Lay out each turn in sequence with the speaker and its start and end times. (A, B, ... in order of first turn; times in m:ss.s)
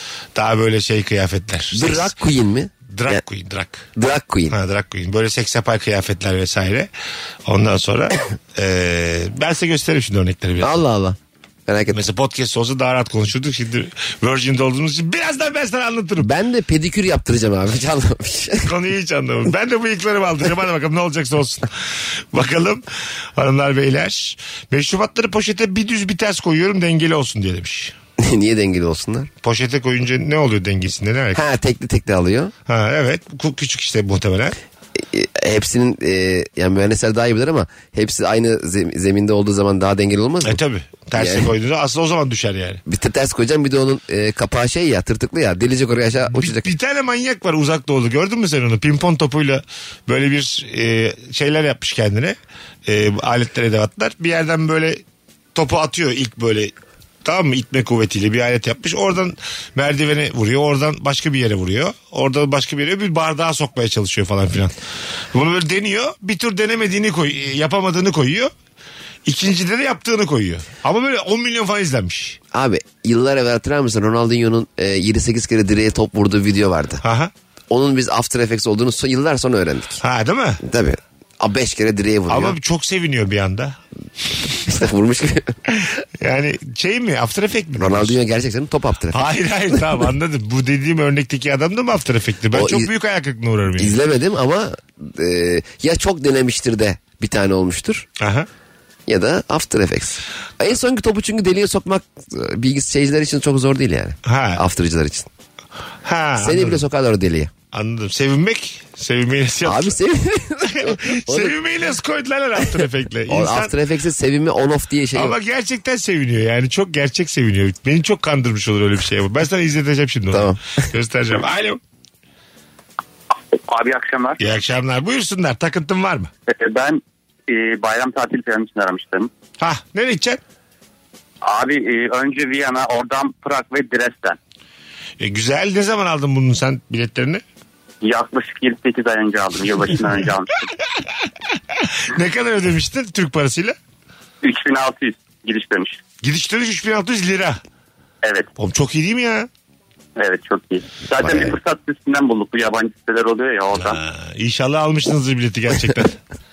0:00.3-0:02.1 A
0:01.7-0:03.2 B
0:02.9-0:03.9 A
0:04.0-0:04.6 B
0:04.5-0:06.9 A
0:07.4-0:10.7 A
0:10.6-0:12.0 B
0:11.9-0:16.3 A
0:16.2-0:18.7 B
0:18.6-0:21.7 A
0:22.3-0:22.8 A
0:23.4-0:27.9 A
0:28.2-0:29.3 B
0:29.4-0:31.4 A
0:31.3-0:32.5 B
0:32.7-0:34.6 A
0:35.0-0:40.6 B
0:40.4-0:42.8 A
0:41.1-0:41.5 B
0:42.8-0:46.7 B
0:46.3-0:55.0 A
0:55.5-0:56.7 A
0:57.2-1:04.7 A
1:05.3-1:08.5 A
1:09.2-1:12.4 A
1:12.5-1:17.0 B
1:17.0-1:17.3 A
1:17.7-1:20.0 B
1:20.0-1:20.6 A
1:20.6-1:22.6 B
1:22.3-1:23.8 A
1:24.6-1:25.5 B
1:25.7-1:28.1 A
1:27.8-1:29.8 B
1:29.1-1:33.9 A
1:32.5-1:32.9 B
1:33.8-1:38.1 B
1:38.2-1:38.5 A
1:39.1-1:45.3 B
1:44.2-1:44.6 A
1:46.0-1:46.8 A
1:46.4-1:47.5 B
1:47.7-1:49.9 A
1:49.6-1:51.6 B
1:50.7-1:53.7 A
1:53.3-1:55.4 B
1:55.1-2:01.8 A
2:00.3-2:00.6 B
2:03.6-2:04.4 C
2:04.4-2:06.3 A
2:06.5-2:09.3 C
2:09.6-2:10.4 A
2:11.4-2:14.4 C
2:15.2-2:17.4 A
2:18.0-2:20.7 C
2:21.6-2:23.7 A
2:24.4-2:26.0 C
2:26.2-2:27.6 A
2:28.2-2:28.5 C
2:28.6-2:29.5 A
2:30.2-2:34.0 C
2:31.2-2:31.5 A
2:33.8-2:36.2 A